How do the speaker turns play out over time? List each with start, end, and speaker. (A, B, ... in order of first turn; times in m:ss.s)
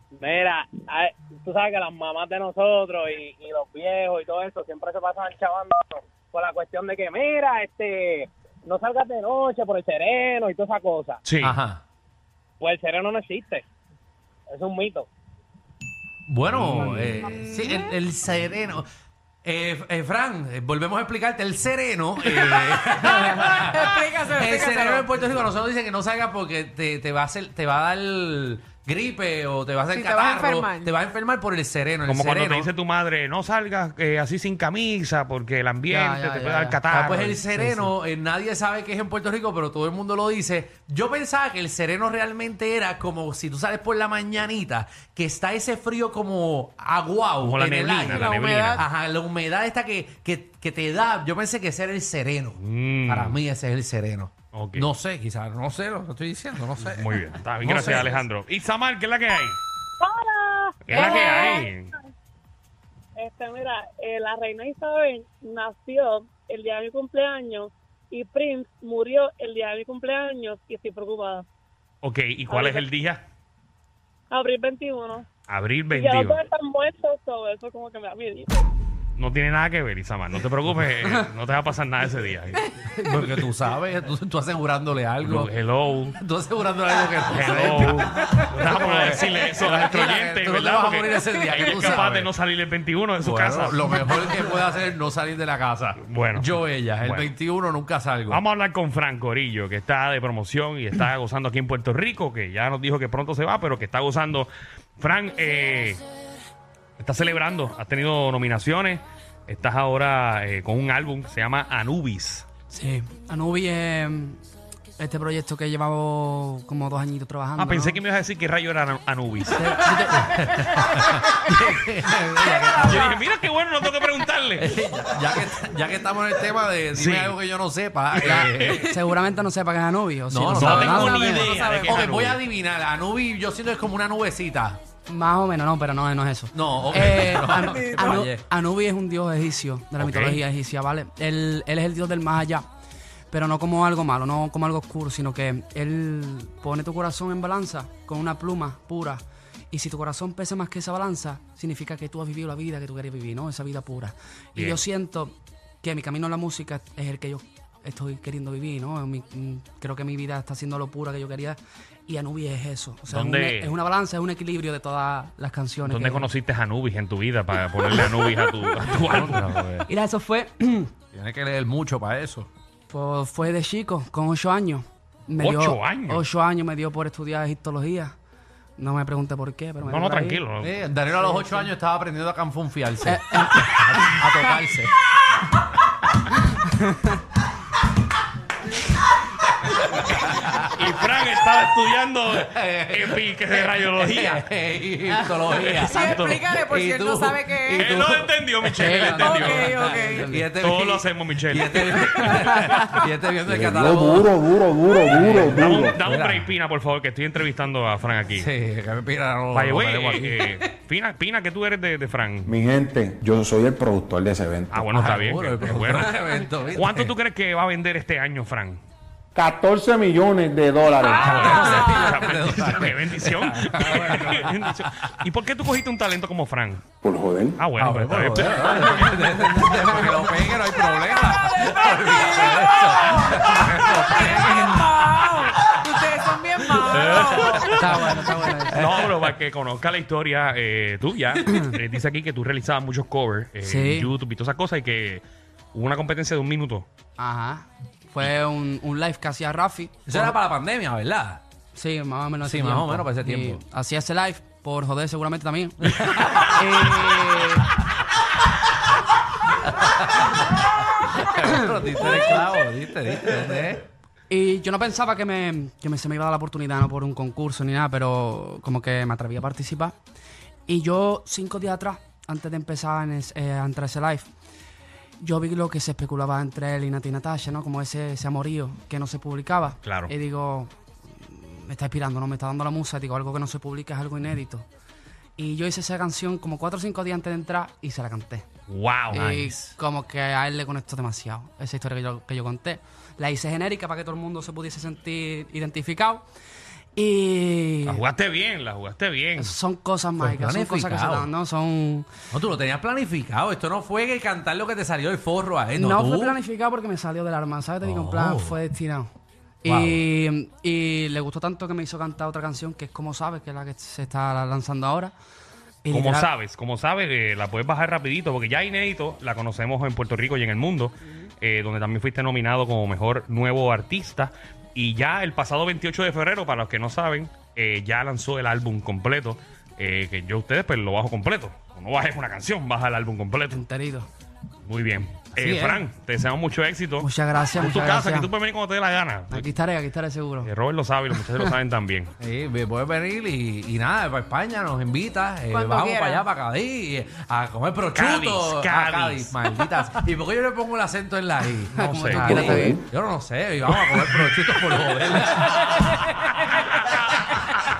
0:00.2-0:11.2 A
0:11.3-0:11.6 B
0:11.4-0:11.8 C
0:12.6-0:13.6 A
0:14.5-0:15.1 A
0:16.3-0:18.9 C
0:16.6-0:17.0 B
0:17.2-0:18.0 D
0:19.4-0:32.7 C
0:22.2-0:25.4 D
0:29.9-0:31.0 D
0:32.0-0:37.4 B
0:35.9-0:36.8 E
0:36.9-0:58.2 C
0:37.5-0:37.9 E
0:47.4-0:48.8 B
0:48.0-0:48.8 D
0:52.6-0:53.4 B
0:54.5-0:54.9 B
0:56.8-0:59.6 B
1:00.0-1:01.7 F
1:00.8-1:01.9 B
1:01.0-1:01.6 D
1:03.2-1:11.5 F
1:12.0-1:13.2 B
1:12.5-1:12.8 F
1:14.3-1:15.3 F
1:15.5-1:16.4 B
1:15.9-1:18.7 F
1:19.2-1:22.7 B
1:22.9-1:25.5 C
1:25.2-1:26.2 B
1:26.2-1:32.3 C
1:27.3-1:34.0 B
1:31.1-1:32.0 D
1:33.2-1:38.4 C
1:36.0-1:37.3 B
1:38.3-1:46.0 B
1:47.0-1:52.4 B
1:52.7-1:54.4 E
1:55.0-1:58.0 E
1:57.6-1:59.8 B
1:59.6-2:00.6 E
1:59.8-2:03.2 C
2:00.6-2:01.6 D
2:02.3-2:03.2 D
2:02.9-2:04.8 B
2:04.6-2:08.9 C
2:06.9-2:07.4 B
2:08.2-2:11.5 E
2:08.4-2:08.9 D
2:10.3-2:14.8 C
2:10.5-2:12.4 B
2:11.1-2:12.0 D
2:15.1-2:22.6 E
2:16.5-2:18.4 C
2:17.6-2:18.3 D
2:20.0-2:20.3 B
2:20.0-2:20.4 C
2:23.3-2:46.3 E
2:34.6-2:34.8 B
2:43.1-2:43.8 B
2:45.9-2:49.8 B
2:47.9-2:48.4 E
2:49.0-2:49.8 C
2:49.9-2:50.9 E
2:51.1-2:52.5 C
2:52.9-2:58.1 E
2:55.4-2:56.2 B
2:58.8-3:00.4 E
2:59.8-3:00.8 B
3:00.6-3:05.0 C
3:01.1-3:01.7 E
3:03.0-3:04.3 E
3:06.8-3:07.1 E
3:09.7-3:10.7 C
3:10.5-3:14.4 B
3:12.4-3:19.0 C
3:15.4-3:18.1 D
3:15.5-3:16.5 B
3:17.8-3:19.9 B
3:18.8-3:20.5 E
3:19.0-3:20.4 D
3:19.7-3:24.3 C
3:20.6-3:22.0 B
3:22.4-3:23.0 D
3:23.4-3:26.0 G
3:25.1-3:26.5 C
3:25.5-3:28.5 B
3:28.4-3:30.5 C
3:29.5-3:32.5 B
3:32.5-3:34.8 G
3:34.7-3:38.8 B
3:34.9-3:37.1 C
3:39.4-3:41.6 G
3:41.0-3:46.8 B
3:41.2-3:45.2 C
3:47.0-3:47.6 G
3:47.6-3:49.3 B
3:47.8-3:56.0 C
3:51.6-3:58.0 D
3:56.5-3:57.1 C
3:56.9-3:58.0 B
3:57.7-3:59.0 E
3:58.7-4:06.9 B
4:03.6-4:04.1 E
4:07.2-4:10.4 E
4:10.1-4:11.4 C
4:11.7-4:17.7 E
4:12.4-4:13.6 C
4:15.8-4:16.6 C
4:19.7-4:23.9 C
4:24.3-4:29.9 E
4:30.7-4:34.3 E
4:35.2-4:44.7 E
4:39.8-4:40.1 B
4:45.4-4:48.4 E
4:48.7-4:49.6 B
4:49.1-4:56.2 E
4:57.0-4:58.0 E
4:57.9-4:59.6 B
4:59.4-5:02.1 E
5:00.2-5:01.3 C
5:02.3-5:06.4 C
5:05.8-5:09.1 E
5:07.8-5:08.6 C
5:09.6-5:15.1 E
5:09.7-5:10.0 C
5:15.8-5:16.3 E
5:15.9-5:33.6 B
5:33.5-5:34.1 E
5:34.7-5:39.5 B
5:35.4-5:35.8 C
5:37.0-5:38.3 E
5:39.3-5:40.5 E
5:40.4-5:42.1 B
5:42.2-5:56.0 C
5:45.5-5:46.3 D
5:47.9-5:49.5 B
5:51.7-5:52.8 E
5:51.8-5:52.6 B
5:53.8-5:54.2 B
5:56.7-5:57.4 B